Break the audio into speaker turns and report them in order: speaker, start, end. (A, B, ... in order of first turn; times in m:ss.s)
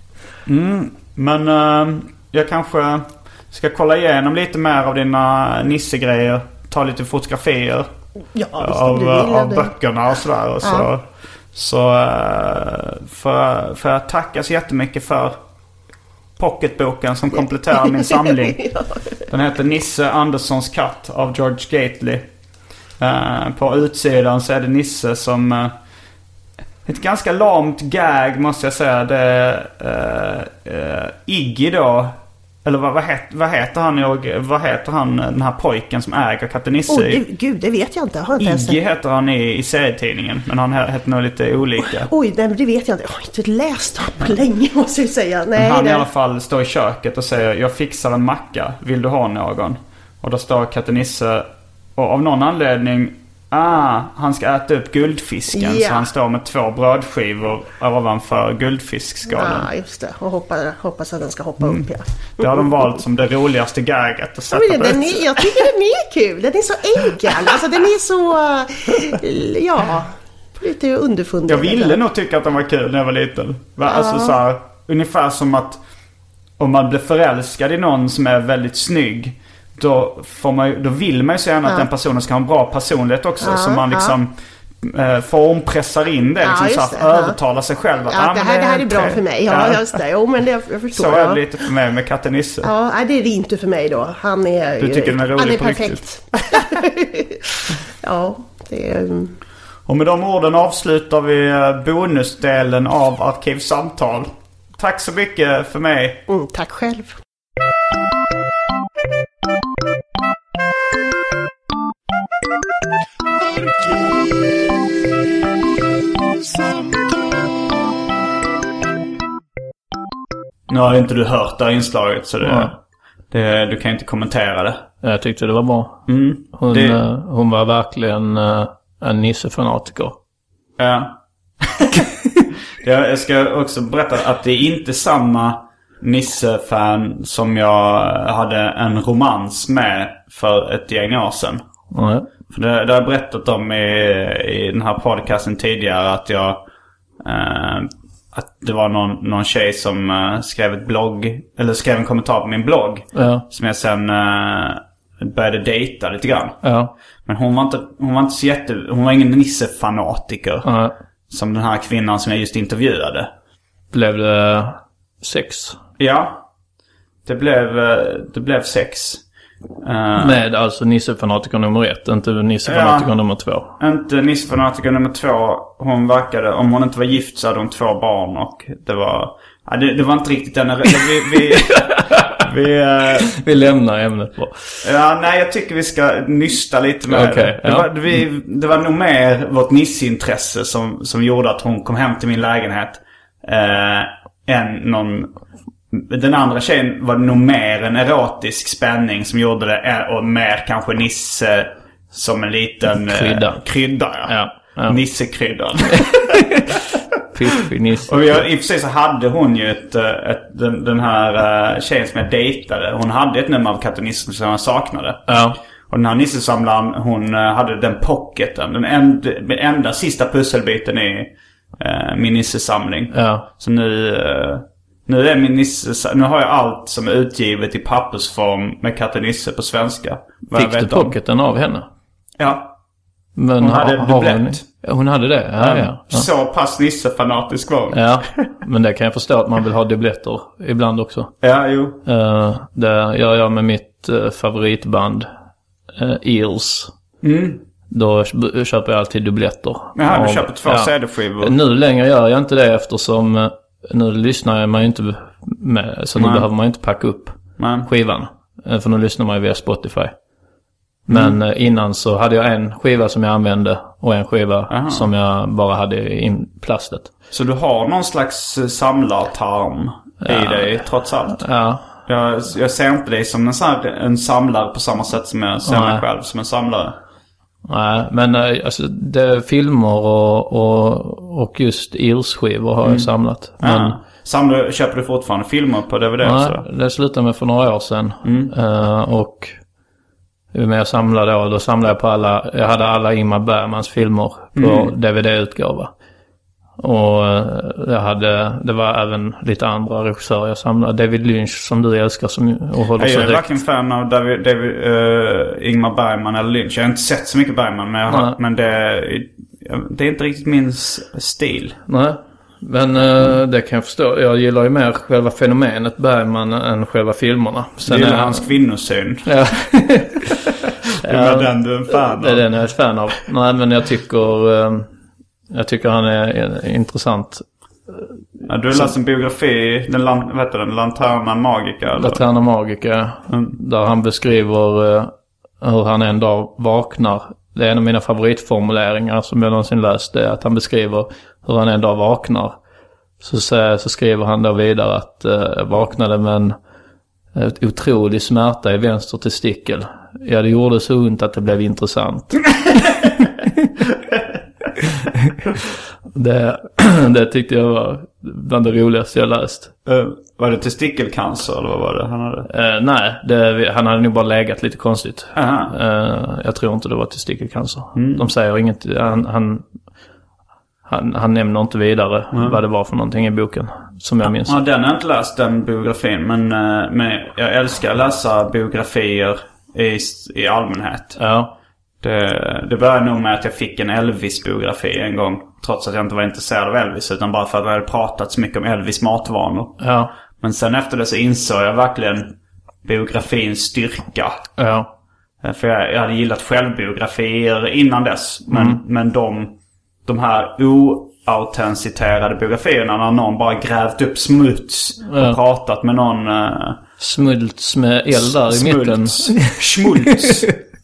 0:00.5-0:07.9 A
0:08.4-0:09.7 B
0:08.6-0:15.4 A
0:10.6-0:10.9 B
0:16.4-0:18.6 A
0:17.7-0:19.2 B
0:19.3-0:22.3 A
0:23.0-0:25.7 A
0:26.8-0:37.2 A
0:36.9-0:38.8 B
0:38.4-0:42.1 A
0:42.0-0:46.1 B
0:45.6-0:59.7 A
0:55.5-0:56.1 B
0:59.3-1:02.6 B
1:01.6-1:01.9 A
1:02.4-1:05.6 A
1:04.5-1:12.0 B
1:11.5-1:15.8 A
1:13.8-1:14.3 B
1:16.6-1:30.0 A
1:23.4-1:24.2 B
1:26.4-1:27.4 B
1:28.1-1:31.4 B
1:31.0-1:32.7 A
1:32.6-1:39.4 B
1:34.8-1:36.0 A
1:39.9-1:46.2 A
1:46.3-1:47.2 B
2:00.7-2:02.8 A
2:02.4-2:02.7 C
2:03.3-2:04.9 A
2:05.0-2:10.2 C
2:06.1-2:07.0 A
2:10.8-2:12.1 A
2:12.8-2:21.6 A
2:21.9-2:22.3 C
2:22.5-2:26.6 A
2:27.2-2:36.6 A
2:33.2-2:33.4 C
2:36.6-2:36.9 C
2:37.2-2:40.7 A
2:40.6-2:41.0 C
2:41.3-2:43.3 A
2:43.9-2:45.8 C
2:46.0-2:46.5 A
2:47.2-2:49.2 A
2:49.8-2:50.4 A
2:50.2-2:53.8 C
2:52.7-2:53.1 A
2:53.8-3:03.3 A
3:01.7-3:02.4 C
3:03.3-3:04.9 C
3:04.8-3:15.4 A
3:07.1-3:07.9 C
3:15.9-3:26.5 A
3:23.0-3:23.6 C
3:24.3-3:25.0 C
3:26.1-3:26.8 C
3:27.3-3:28.5 C
3:28.1-3:51.2 A
3:35.3-3:35.6 C
3:43.1-3:43.5 C
3:50.5-3:51.9 C
3:52.4-3:52.8 A
3:53.4-3:56.3 C
3:53.6-3:54.6 A
3:55.6-3:58.0 A
3:57.9-4:01.3 C
4:01.4-4:02.0 A
4:02.0-4:05.3 C
4:06.0-4:06.9 C
4:07.2-4:07.6 A
4:07.9-4:20.2 C
4:10.0-4:11.6 A
4:16.2-4:16.5 A
4:17.6-4:17.9 A
4:21.1-4:27.1 C
4:21.1-4:21.4 A
4:24.7-4:25.1 A
4:27.3-4:31.5 A
4:30.2-4:31.9 C
4:32.1-4:37.0 A
4:35.6-4:36.0 C
4:37.6-4:44.0 C
4:42.8-4:46.7 A
4:46.2-4:49.6 C
4:48.2-4:48.5 A
4:50.5-4:55.9 C
4:54.6-4:54.9 A
4:56.8-5:03.6 C
5:03.0-5:11.8 A
5:08.1-5:08.4 C
5:11.9-5:18.5 C
5:17.8-5:19.3 A
5:19.2-5:24.9 C
5:21.0-5:22.4 A
5:25.5-5:28.2 C
5:28.5-5:32.2 A
5:31.9-5:42.6 C
5:33.3-5:33.6 A
5:43.2-5:46.6 C
5:47.3-5:53.7 C
5:55.0-5:55.4 C
5:56.1-5:59.7 C
5:59.9-6:02.5 A
6:02.5-6:09.6 C
6:05.4-6:05.8 A
6:07.9-6:08.3 A
6:10.9-6:14.6 C
6:12.3-6:12.6 A
6:14.3-6:21.2 A
6:21.2-6:21.5 C
6:22.0-6:29.8 A
6:29.8-6:30.1 C
6:30.4-6:34.4 A
6:34.6-6:34.9 C
6:35.4-6:46.8 A
6:38.5-6:38.8 C
6:45.1-6:45.4 C
6:47.0-6:50.5 C
6:48.1-6:50.5 A